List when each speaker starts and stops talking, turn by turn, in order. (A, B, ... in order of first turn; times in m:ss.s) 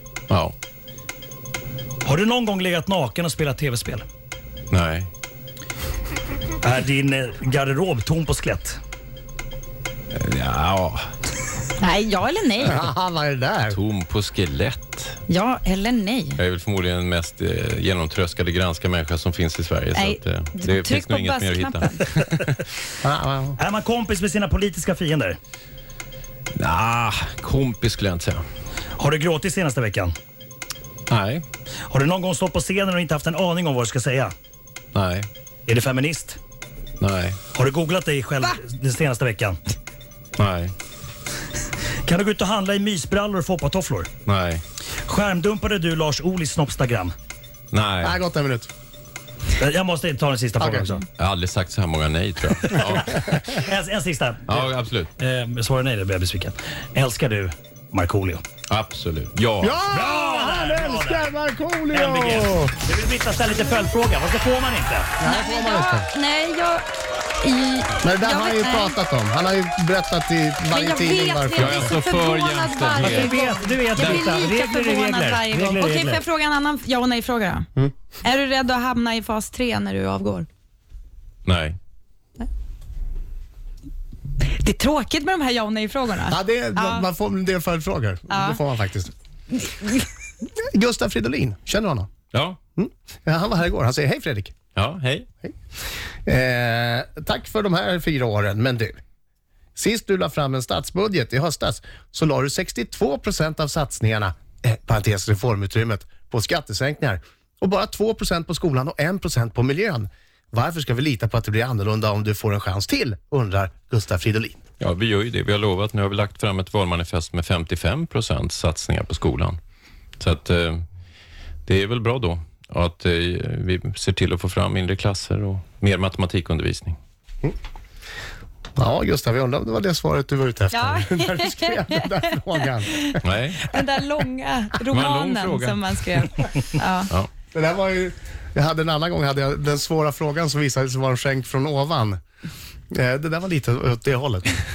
0:00.3-0:00.5 A
0:02.0-0:04.1 B
0:04.7-0:05.1 A
0:06.6-0:08.8 B
0:10.1-0:11.0 A
0:11.8-0:12.8 C
0:12.6-0:13.8 D
0:13.7-0:15.2 A
0:15.3-0:16.4 C
0:16.4-0:22.7 A
0:19.9-0:22.0 C
0:23.0-0:23.6 D
0:23.6-0:25.4 B
0:26.5-0:28.4 A
0:29.0-0:30.2 B
0:31.1-0:31.4 A
0:31.9-0:34.3 B
0:34.9-0:35.3 A
0:35.7-0:36.4 B
0:37.0-0:37.4 A
0:37.5-0:39.6 B
0:40.4-0:40.7 A
0:42.0-0:44.1 B
0:44.3-0:44.6 A
0:45.0-0:47.1 B
0:47.7-0:48.2 A
0:48.0-0:48.7 D
0:49.6-0:51.0 B
0:50.6-0:51.0 D
0:51.2-0:53.6 A
0:52.7-0:58.4 B
0:54.5-0:55.1 A
0:58.7-0:59.8 A
0:59.6-1:02.7 D
0:59.9-1:01.3 B
1:01.9-1:05.2 B
1:05.2-1:06.1 D
1:05.2-1:06.9 C
1:07.4-1:09.0 C
1:08.0-1:12.0 D
1:10.7-1:17.7 C
1:11.6-1:13.4 A
1:13.0-1:16.2 B
1:14.0-1:14.2 A
1:18.2-1:20.5 C
1:21.4-1:21.8 A
1:24.4-1:27.1 C
1:26.3-1:29.1 D
1:28.3-1:28.6 C
1:29.5-1:30.1 C
1:30.7-1:32.1 D
1:32.3-1:32.6 A
1:32.8-1:34.5 D
1:34.8-1:35.3 A
1:36.3-1:39.0 D
1:39.8-1:54.6 D
1:54.8-1:59.6 A
2:00.2-2:00.8 A
2:01.7-2:07.0 A
2:08.8-2:13.2 D
2:10.7-2:17.1 C
2:13.2-2:13.6 A
2:14.9-2:15.9 A
2:17.5-2:22.2 D
2:22.9-2:24.6 D